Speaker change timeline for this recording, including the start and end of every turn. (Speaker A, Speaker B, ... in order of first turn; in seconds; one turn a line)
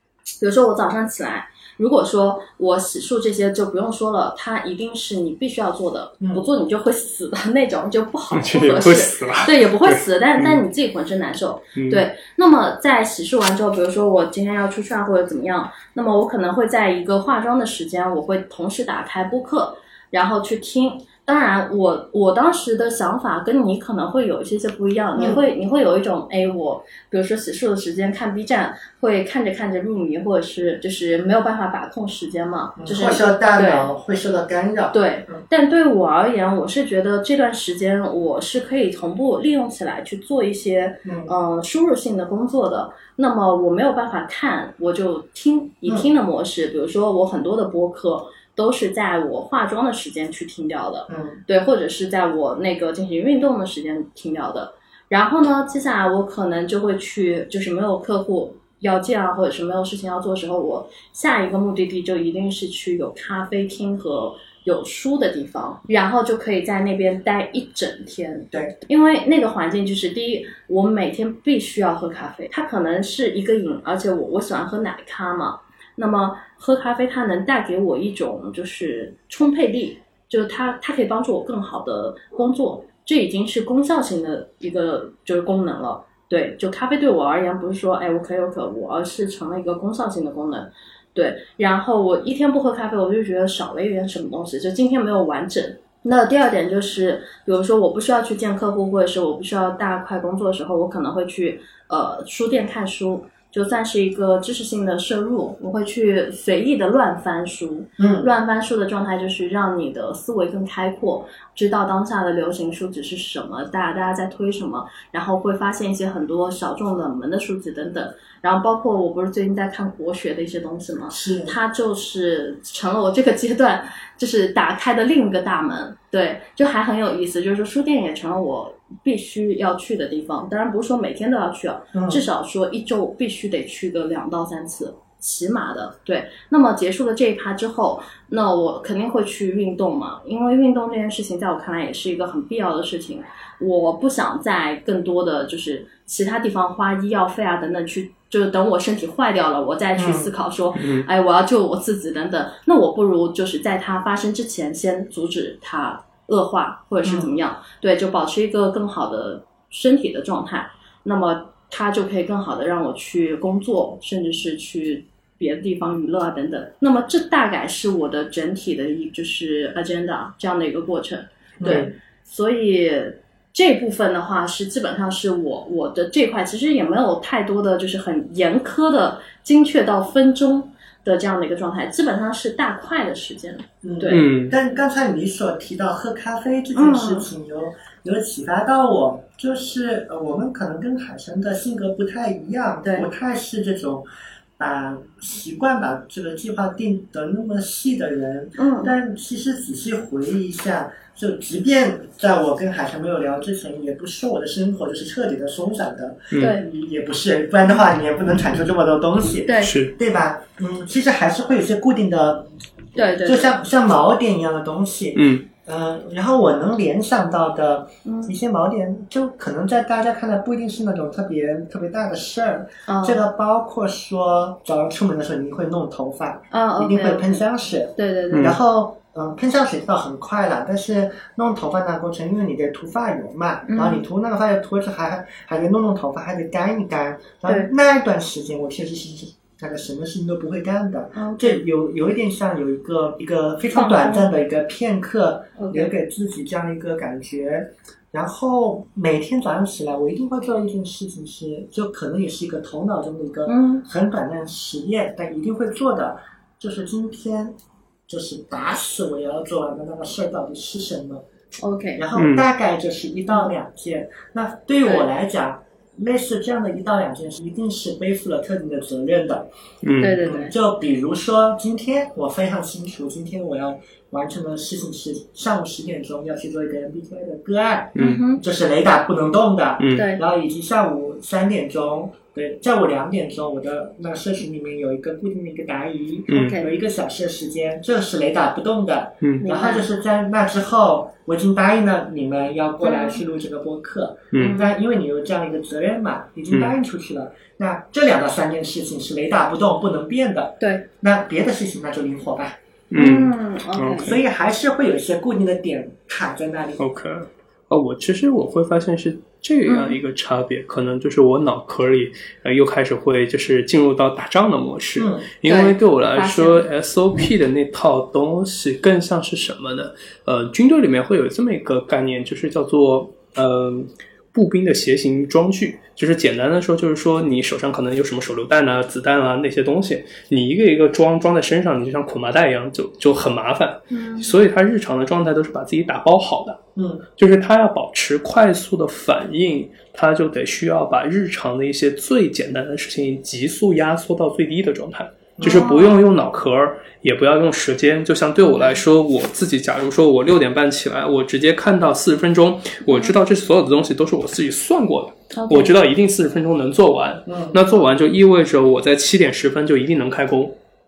Speaker A: 0.4-33.9
Speaker B: 8.3-10.6
Speaker B: 11.8-12.1
Speaker C: 25.2-25.4
Speaker C: 32.8-35.4
Speaker A: 34.9-184.3
Speaker C: 41.0-41.3
Speaker C: 51.1-51.4
Speaker C: 108.0-108.3
Speaker C: 121.1-121.6
Speaker C: 131.9-132.2
Speaker C: 149.9-150.3
Speaker B: 150.8-151.1
Speaker C: 157.0-157.3
Speaker C: 171.6-171.9
Speaker C: 183.8-194.1
Speaker B: 184.1-184.6
Speaker A: 186.8-187.3
Speaker C: 194.6-212.5
Speaker A: 198.6-198.9
Speaker B: 206.3-206.6
Speaker A: 206.4-206.7
Speaker A: 209.5-209.7
Speaker B: 209.6-209.9
Speaker A: 212.9-213.6
Speaker C: 213.2-257.5
Speaker B: 215.2-215.4
Speaker A: 218.1-218.3
Speaker A: 222.9-223.2
Speaker A: 226.5-227.4
Speaker A: 228.0-228.6
Speaker B: 228.3-228.6
Speaker A: 233.7-234.1
Speaker A: 241.2-241.6
Speaker A: 243.7-244.3
Speaker A: 245.6-245.9
Speaker A: 253.5-253.8
Speaker C: 258.1-261.2
Speaker A: 261.6-262.1
Speaker C: 262.0-269.5
Speaker B: 262.1-262.5
Speaker B: 269.8-270.2
Speaker A: 270.0-270.5
Speaker C: 270.2-302.6
Speaker B: 278.0-278.2
Speaker A: 278.0-278.4
Speaker B: 279.8-280.1
Speaker A: 279.9-280.2
Speaker B: 286.3-286.6
Speaker A: 286.3-286.7
Speaker A: 289.4-289.9
Speaker A: 292.8-293.2
Speaker B: 294.3-294.6
Speaker A: 294.4-294.7
Speaker A: 300.6-300.9
Speaker B: 302.9-304.2
Speaker A: 302.9-304.1
Speaker C: 304.0-306.8
Speaker B: 306.8-336.6
Speaker A: 309.7-310.0
Speaker C: 315.0-315.3
Speaker A: 315.4-316.7
Speaker A: 333.9-334.3
Speaker C: 336.8-337.1
Speaker B: 337.2-360.6
Speaker C: 345.4-345.7
Speaker A: 345.4-346.0
Speaker A: 348.5-348.8
Speaker A: 352.9-353.1
Speaker A: 355.3-355.7
Speaker C: 357.3-357.6